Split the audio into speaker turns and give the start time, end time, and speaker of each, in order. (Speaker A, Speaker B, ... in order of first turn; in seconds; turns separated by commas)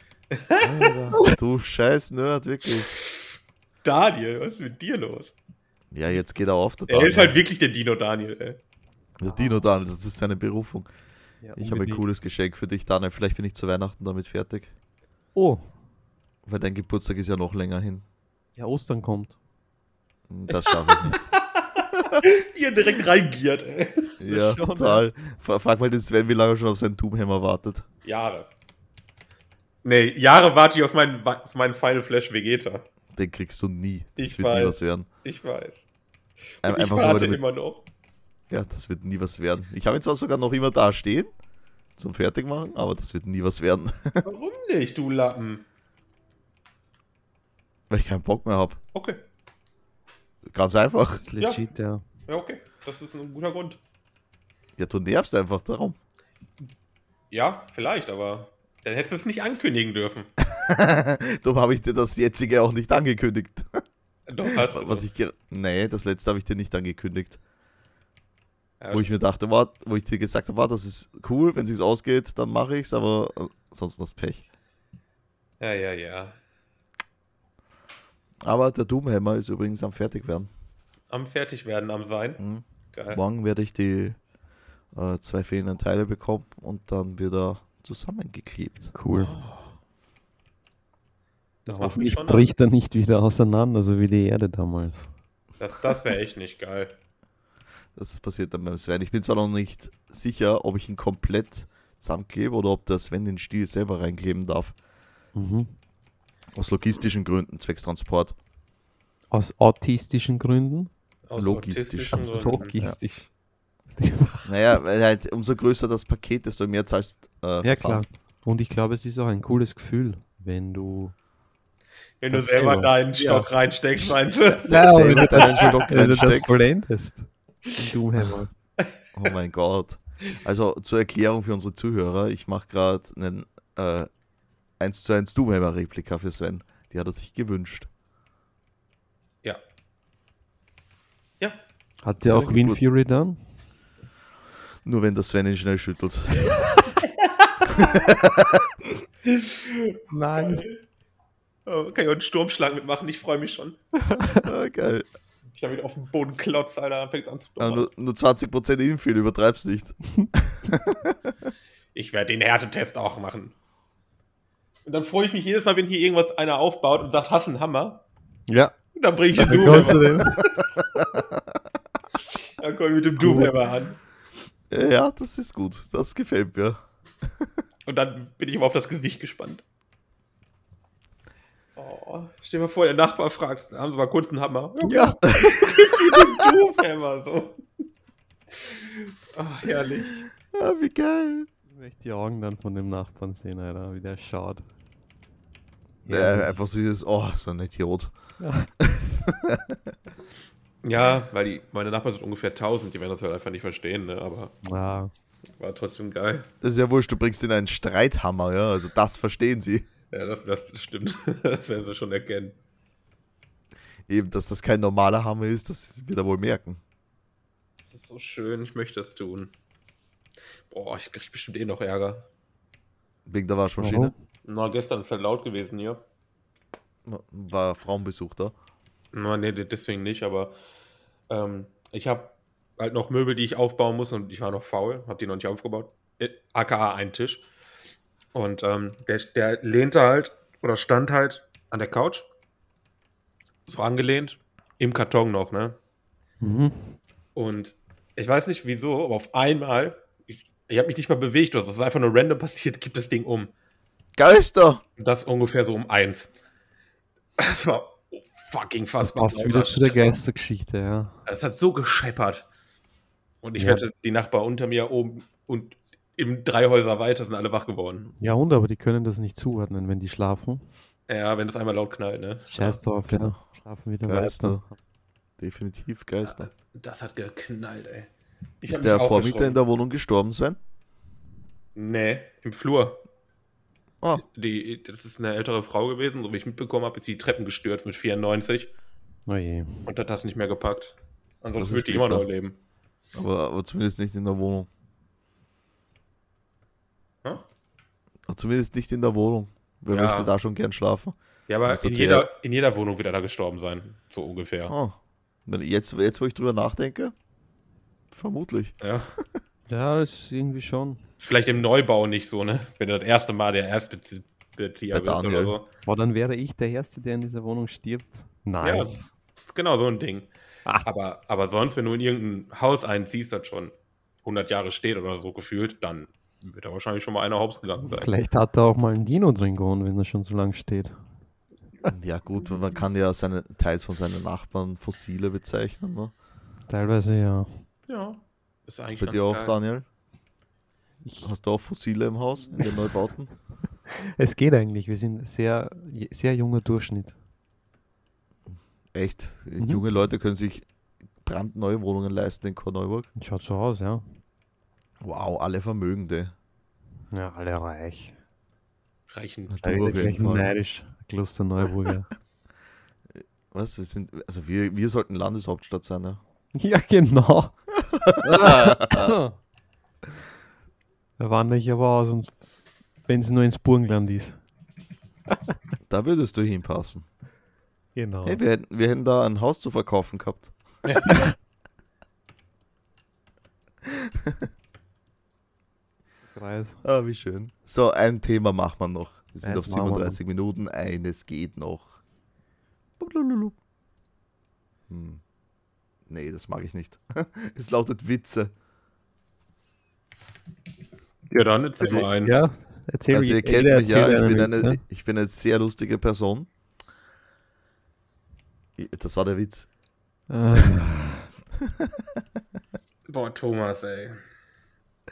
Speaker A: 0.3-1.2, Speaker B: 0.6-2.9, Speaker A: 2.9-3.3, Speaker A: 3.8-5.3, Speaker B: 5.9-7.4, Speaker A: 6.9-8.6, Speaker B: 9.2-10.9, Speaker C: 9.2-9.6, Speaker C: 11.4-12.0, Speaker B: 11.6-14.7, Speaker C: 15.3-15.6, Speaker B: 16.5-18.1, Speaker C: 18.6-19.4, Speaker B: 20.3-21.2, Speaker A: 20.5-24.1, Speaker B: 24.2-27.9, Speaker C: 24.3-25.1, Speaker A: 28.0-28.5, Speaker A: 29.8-32.9, Speaker B: 33.1-35.1, Speaker A: 34.2-35.9, Speaker A: 36.6-37.9, Speaker B: 36.6-37.4, Speaker B: 38.5-41.3, Speaker B: 42.0-44.2, Speaker A: 44.2-45.6, Speaker B: 47.9-48.8, Speaker A: 48.9-49.2, Speaker B: 50.5-51.2, Speaker C: 51.2-52.0, Speaker A: 51.4-51.6, Speaker A: 52.3-53.8, Speaker B: 54.8-56.0, Speaker A: 57.3-60.3, Speaker B: 60.4-63.8, Speaker A: 64.3-65.1, Speaker B: 64.5-67.4, Speaker A: 68.8-69.2, Speaker B: 68.9-74.4, Speaker A: 75.6-76.4, Speaker B: 78.4-80.5, Speaker A: 81.1-82.4, Speaker B: 82.4-84.2, Speaker A: 82.9-83.2, Speaker B: 84.9-88.9, Speaker C: 88.9-89.3, Speaker A: 89.2-89.8, Speaker A: 91.7-92.5, Speaker C: 91.7-95.1, Speaker A: 95.6-97.0, Speaker B: 98.0-104.8, Speaker C: 105.3-105.8, Speaker B: 106.5-108.3, Speaker C: 109.3-110.9, Speaker A: 111.3-112.7, Speaker B: 111.4-113.0, Speaker C: 112.1-113.3, Speaker C: 114.0-114.5, Speaker B: 114.5-118.0, Speaker C: 117.6-121.2, Speaker A: 122.2-125.9, Speaker C: 122.3-123.5, Speaker C: 124.7-128.5, Speaker B: 124.8-126.7, Speaker B: 129.2-134.1, Speaker B: 134.8-137.9, Speaker C: 142.0-143.4, Speaker B: 142.2-142.8, Speaker B: 144.8-146.7, Speaker A: 147.0-147.9, Speaker B: 147.7-148.9, Speaker A: 149.2-150.8, Speaker C: 150.1-150.7, Speaker A: 151.7-153.8, Speaker C: 154.1-154.5, Speaker B: 154.4-155.1, Speaker A: 155.5-157.9, Speaker B: 157.6-161.3, Speaker A: 161.9-163.6, Speaker A: 164.9-168.0, Speaker C: 168.5-168.8, Speaker A: 168.9-170.6, Speaker C: 169.4-170.4, Speaker B: 169.6-170.4, Speaker B: 171.0-171.2, Speaker A: 172.6-174.0, Speaker C: 173.2-173.5, Speaker B: 174.7-176.8, Speaker A: 177.9-179.6, Speaker A: 181.8-187.7, Speaker C: 184.9-185.1, Speaker B: 185.3-186.2, Speaker A: 188.5-190.3, Speaker B: 190.5-191.5, Speaker C: 191.7-194.6, Speaker C: 196.1-196.5, Speaker B: 196.1-198.1, Speaker C: 198.4-198.7, Speaker B: 198.8-199.9, Speaker A: 200.8-204.6, Speaker C: 204.6-205.1, Speaker A: 205.6-206.5, Speaker B: 206.6-209.9, Speaker A: 210.1-212.6, Speaker B: 214.1-216.8, Speaker A: 217.9-219.5, Speaker A: 220.7-222.3, Speaker B: 223.3-224.1, Speaker C: 223.8-224.1, Speaker A: 224.4-226.0, Speaker B: 227.1-228.5, Speaker A: 229.1-230.6, Speaker A: 231.3-237.5, Speaker A: 238.3-242.3, Speaker A: 243.7-245.8, Speaker C: 246.4-247.0, Speaker A: 247.4-253.5, Speaker B: 254.2-254.8, Speaker A: 255.0-256.3, Speaker A: 257.4-260.1, Speaker C: 259.0-261.2, Speaker A: 261.3-262.5, Speaker A: 263.4-268.1, Speaker C: 263.6-263.8, Speaker C: 268.2-270.7, Speaker A: 271.1-272.8, Speaker C: 272.5-274.7, Speaker B: 273.1-273.4, Speaker B: 274.1-274.6, Speaker B: 275.4-276.5, Speaker A: 276.2-278.1, Speaker A: 278.6-279.6, Speaker B: 278.7-280.6, Speaker A: 281.8-283.0, Speaker A: 284.1-288.7, Speaker C: 289.3-289.9, Speaker A: 289.9-292.6, Speaker B: 291.6-292.3, Speaker B: 293.1-294.7, Speaker B: 298.3-302.3, Speaker A: 299.9-300.3, Speaker A: 301.5-304.8, Speaker B: 304.7-307.1, Speaker B: 308.1-309.2, Speaker A: 308.8-309.1, Speaker C: 309.7-311.0, Speaker A: 311.2-315.7, Speaker B: 314.9-315.6, Speaker C: 315.9-319.1, Speaker A: 318.6-319.0, Speaker A: 319.5-320.3, Speaker A: 320.8-323.7, Speaker A: 324.2-328.1, Speaker C: 327.9-331.0, Speaker B: 331.9-336.1, Speaker C: 336.7-337.6, Speaker A: 337.9-339.6, Speaker B: 339.0-339.9, Speaker C: 341.0-341.3, Speaker B: 341.2-343.3, Speaker C: 344.0-347.2, Speaker B: 348.9-350.6, Speaker B: 351.2-353.1, Speaker C: 353.2-354.0, Speaker B: 355.0-356.3, Speaker C: 357.1-358.1, Speaker A: 359.1-359.9, Speaker B: 359.5-360.6, Speaker C: 359.6-362.1, Speaker B: 363.2-366.2, Speaker C: 366.6-367.6, Speaker B: 367.9-369.2, Speaker C: 368.2-369.4, Speaker C: 371.2-372.4, Speaker C: 373.1-374.4, Speaker B: 375.9-377.1, Speaker C: 378.0-378.4, Speaker B: 378.2-380.5, Speaker A: 380.9-381.2, Speaker B: 383.9-384.5, Speaker C: 386.3-386.8, Speaker B: 386.8-392.0, Speaker C: 389.4-390.2, Speaker B: 393.0-393.6, Speaker B: 394.9-395.2, Speaker B: 396.1-398.5, Speaker A: 401.3-402.4, Speaker C: 401.9-404.8, Speaker B: 403.1-406.5, Speaker B: 408.8-409.7, Speaker C: 410.3-411.3, Speaker B: 410.6-410.8, Speaker B: 411.6-412.2, Speaker A: 413.1-414.2